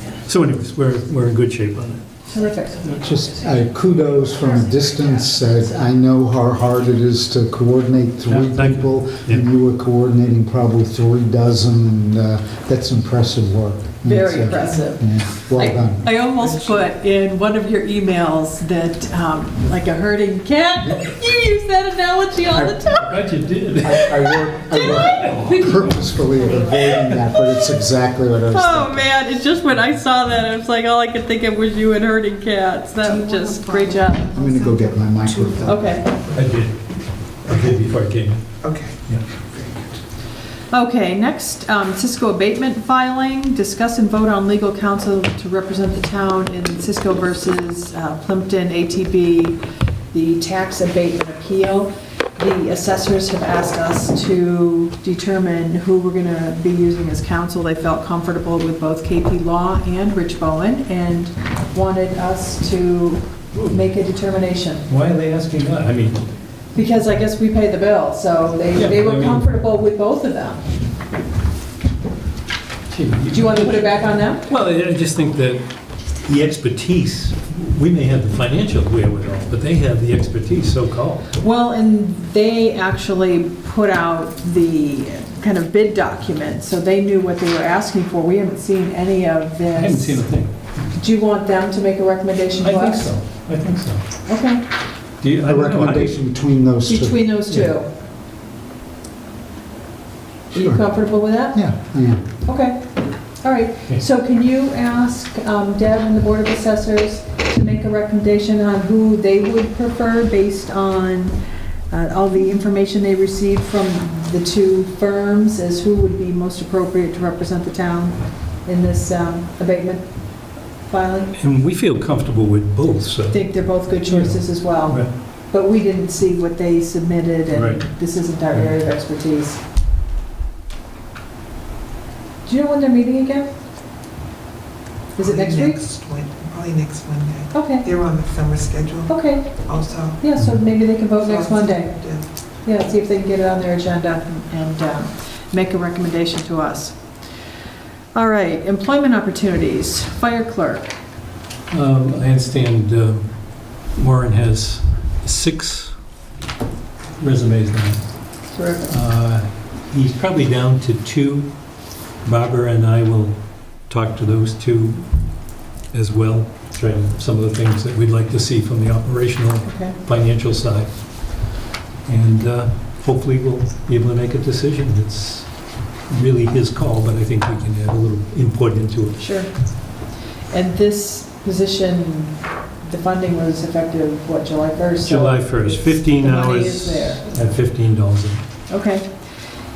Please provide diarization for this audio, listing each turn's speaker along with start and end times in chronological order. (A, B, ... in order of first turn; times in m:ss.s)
0:00.2-0:02.2 A
0:02.2-0:05.5 B
0:02.9-0:16.1 C
0:08.3-0:09.4 A
0:14.0-0:23.2 B
0:16.4-0:16.9 D
0:22.9-0:27.1 A
0:23.8-0:29.1 C
0:24.8-0:26.7 B
0:28.5-0:34.4 B
0:33.0-0:36.4 D
0:34.3-0:35.8 C
0:35.6-0:36.1 B
0:36.3-0:36.8 A
0:37.4-0:39.2 A
0:38.6-0:40.0 D
0:40.7-0:49.6 B
0:50.1-1:04.8 B
1:03.5-1:03.8 A
1:04.9-1:06.2 A
1:06.7-1:10.6 B
1:08.7-1:09.4 A
1:12.9-1:15.7 A
1:13.3-1:14.5 B
1:16.2-1:21.3 A
1:21.3-1:30.3 B
1:29.7-1:30.8 A
1:30.9-1:33.1 B
1:32.6-1:34.0 A
1:34.3-1:34.6 B
1:35.2-1:36.2 A
1:35.4-1:37.3 C
1:36.8-1:37.9 B
1:40.5-1:41.6 B
1:40.5-1:42.3 C
1:42.4-1:42.9 B
1:43.4-1:51.4 B
1:51.9-2:00.1 B
2:00.8-2:01.3 B
2:01.4-2:05.1 A
2:03.3-2:09.6 B
2:07.5-2:07.9 A
2:12.4-2:13.5 B
2:15.2-2:15.8 B
2:15.2-2:20.2 D
2:17.5-2:17.9 B
2:19.1-2:22.0 B
2:21.1-2:22.2 D
2:22.6-2:27.0 B
2:28.1-2:31.0 B
2:31.7-2:33.3 A
2:33.8-2:35.9 A
2:37.2-2:38.0 A
2:38.5-2:39.0 B
2:38.9-2:41.5 A
2:42.2-2:45.1 A
2:45.9-2:51.5 A
2:49.6-2:50.0 B
2:52.0-2:59.2 A
2:59.2-2:59.5 B
3:00.5-3:07.2 B
3:05.0-3:08.4 A
3:08.7-3:09.1 B